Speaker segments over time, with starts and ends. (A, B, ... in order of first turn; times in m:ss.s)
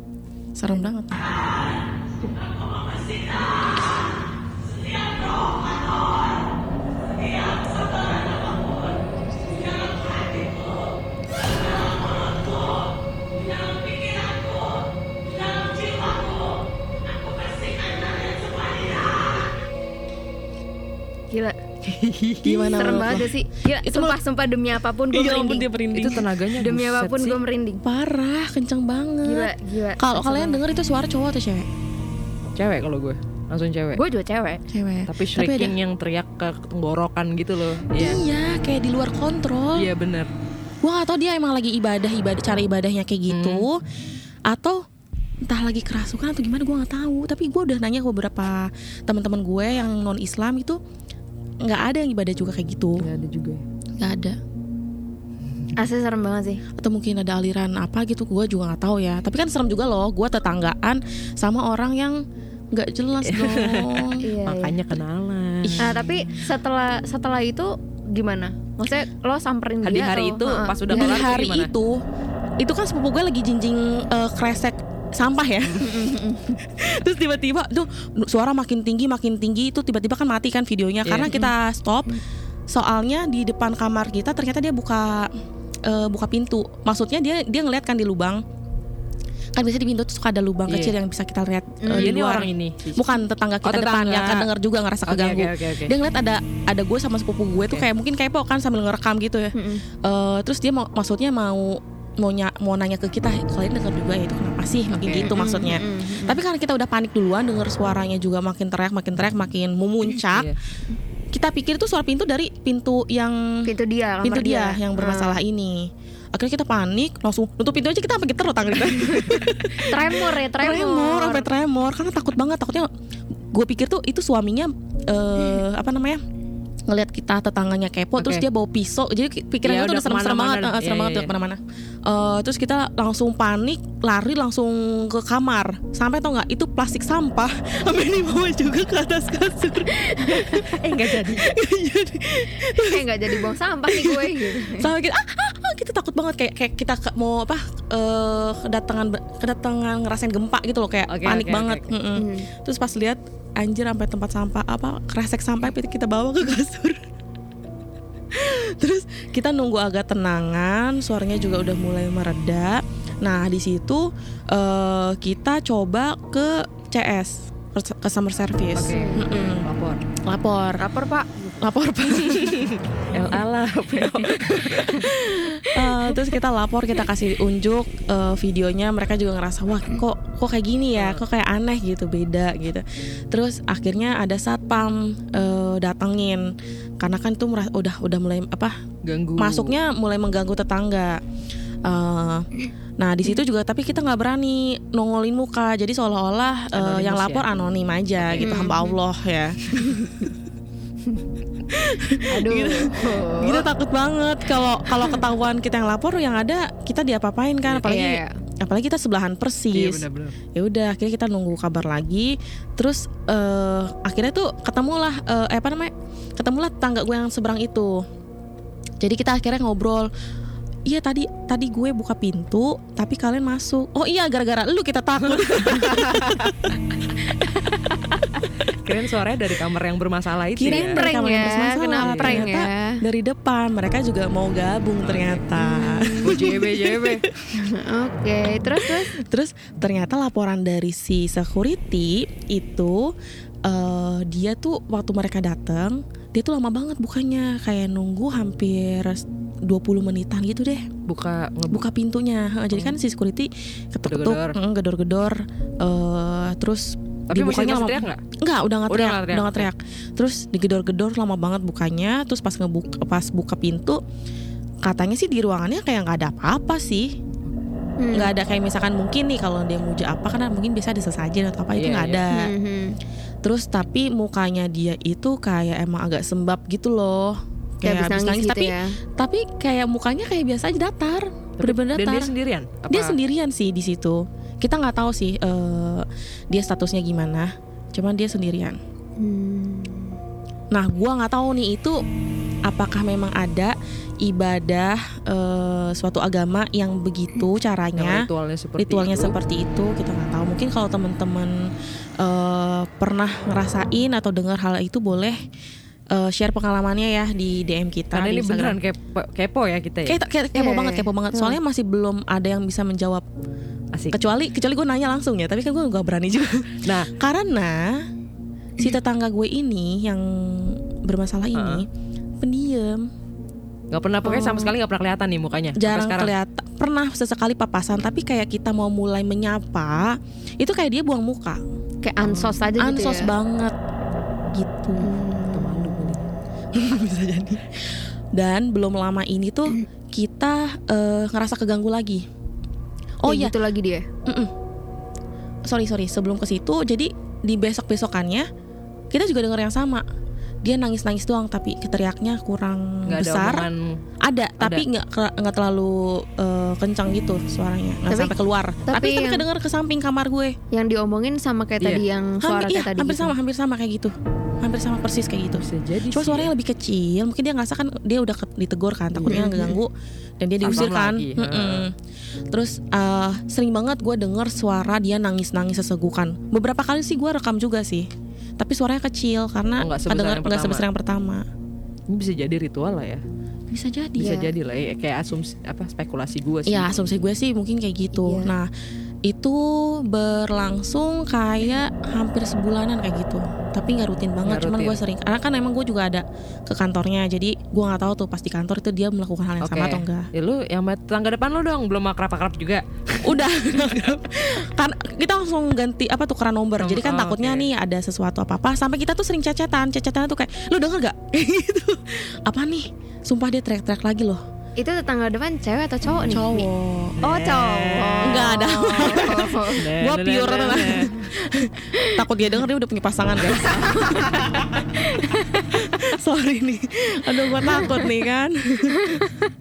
0:00.6-0:01.2 A
0:21.3-0:21.6 B
0:21.8-0:22.7 C
0:22.4-0:24.2 A
0:22.5-0:25.7 B
0:25.1-0:26.3 A
0:25.9-0:27.4 C
0:26.5-0:27.8 B
0:27.8-0:31.7 A
0:29.2-0:30.6 B
0:32.6-0:34.0 C
0:34.0-0:34.6 B
0:34.7-0:35.7 A
0:35.1-0:38.2 C
0:38.0-0:39.9 A
0:39.8-0:40.3 C
0:40.8-0:43.8 A
0:43.3-0:43.7 C
0:44.5-0:44.8 A
0:45.4-0:50.8 A
0:51.6-0:53.1 A
0:53.0-0:53.6 C
0:54.0-0:54.4 A
0:55.7-0:56.6 B
0:56.8-1:02.2 A
1:02.7-1:04.2 A
1:03.2-1:05.9 C
1:04.2-1:04.8 B
1:05.6-1:06.2 A
1:05.8-1:11.2 B
1:09.8-1:11.7 C
1:10.9-1:12.0 A
1:12.6-1:22.2 A
1:15.8-1:16.6 B
1:21.0-1:21.5 C
1:22.7-1:25.3 A
1:25.8-1:28.4 A
1:29.5-1:50.5 A
1:30.7-1:30.9 C
1:31.8-1:32.1 B
1:31.9-1:33.0 C
1:33.6-1:34.5 C
1:35.1-1:35.9 C
1:39.5-1:39.8 B
1:44.9-1:45.3 C
1:45.2-1:46.4 B
1:50.2-1:50.6 C
1:51.3-1:53.7 A
1:53.6-1:55.4 B
1:54.2-2:02.9 A
1:58.8-2:01.5 B
2:03.5-2:06.2 A
2:06.9-2:37.0 A
2:08.2-2:08.4 C
2:09.6-2:11.3 C
2:20.1-2:20.4 B
2:20.3-2:21.5 C
2:22.7-2:24.9 B
2:31.1-2:31.9 C
2:32.2-2:32.5 B
2:38.3-2:49.7 A
2:48.8-2:50.0 C
2:48.8-2:49.4 B
2:50.2-2:50.8 A
2:50.8-2:51.6 B
2:51.6-2:52.6 A
2:52.2-2:55.1 C
2:54.8-3:08.8 A
2:54.9-2:55.9 B
3:01.0-3:01.2 C
3:09.0-3:09.8 C
3:09.4-3:11.2 A
3:11.8-3:12.5 A
3:13.0-3:20.3 A
3:16.7-3:17.4 C
3:18.2-3:18.7 C
3:18.4-3:19.0 B
3:19.8-3:20.3 B
3:21.7-3:38.0 A
3:22.2-3:23.7 B
3:24.9-3:25.2 B
3:27.8-3:28.4 B
3:29.7-3:30.4 C
3:39.0-3:40.1 A
3:40.9-3:46.8 A
3:45.2-3:46.6 C
3:48.7-3:51.0 C
3:50.6-3:57.5 A
3:50.7-3:53.0 B
3:52.0-3:52.5 C
3:55.0-3:55.5 C
3:55.6-3:56.5 B
3:56.2-3:57.2 C
3:57.5-3:59.1 B
3:58.7-4:03.1 A
4:03.6-4:10.9 A
4:11.1-4:11.8 C
4:11.7-4:24.0 A
4:14.1-4:14.6 C
4:17.3-4:18.2 C
4:18.9-4:19.7 C
4:24.8-4:27.1 A
4:28.0-4:28.3 B
4:28.1-4:32.5 A
4:31.7-4:32.3 C
4:32.3-4:32.9 B
4:33.4-4:42.3 A
4:37.8-4:39.0 B
4:41.6-4:43.2 C
4:42.9-4:48.8 A
4:49.2-4:50.2 B
4:50.7-4:52.0 A
4:52.6-4:58.3 A
4:58.0-4:59.3 C
4:58.8-5:01.6 A
5:02.2-5:05.4 A
5:06.1-5:08.8 A
5:08.1-5:10.2 C
5:10.0-5:13.2 A
5:10.5-5:11.5 B
5:14.1-5:18.0 A
5:16.8-5:17.1 C
5:18.8-5:21.9 A
5:21.5-5:21.8 C
5:22.4-5:23.0 A
5:23.9-5:26.3 C
5:24.2-5:24.7 B
5:25.8-5:31.6 A
5:32.0-5:33.3 B
5:32.2-5:33.7 A
5:34.5-5:35.1 A
5:35.0-5:36.2 B
5:35.4-5:36.2 C
5:36.7-5:42.2 A
5:43.2-5:43.5 A
5:43.2-5:44.0 B
5:44.2-5:44.5 A
5:45.6-5:48.5 A
5:49.1-5:50.0 A
5:50.6-5:53.7 A
5:53.1-5:53.9 C
5:54.2-6:00.6 A
5:54.6-5:54.8 C
5:58.1-5:58.3 B
5:58.9-5:59.4 B
6:00.7-6:03.3 B
6:02.4-6:11.9 A
6:05.6-6:06.5 C
6:09.1-6:09.6 C
6:09.3-6:09.8 B
6:10.6-6:11.8 C
6:12.5-6:21.4 A
6:19.8-6:20.8 C
6:22.1-6:23.2 C
6:23.7-6:24.4 A
6:24.2-6:27.1 C
6:26.7-6:28.7 A
6:28.1-6:28.5 B
6:29.2-6:40.3 A
6:34.4-6:35.0 C
6:39.6-6:44.0 C
6:43.2-6:54.4 A
6:46.8-6:47.7 C
6:54.8-6:56.7 B
6:56.3-6:57.2 A
6:57.2-6:58.4 C
6:57.2-6:59.8 B
6:58.2-7:04.8 A
6:59.7-7:01.2 C
7:00.9-7:01.3 B
7:01.8-7:02.2 B
7:03.6-7:05.8 B
7:05.8-7:09.2 A
7:07.6-7:08.1 B
7:08.9-7:09.5 B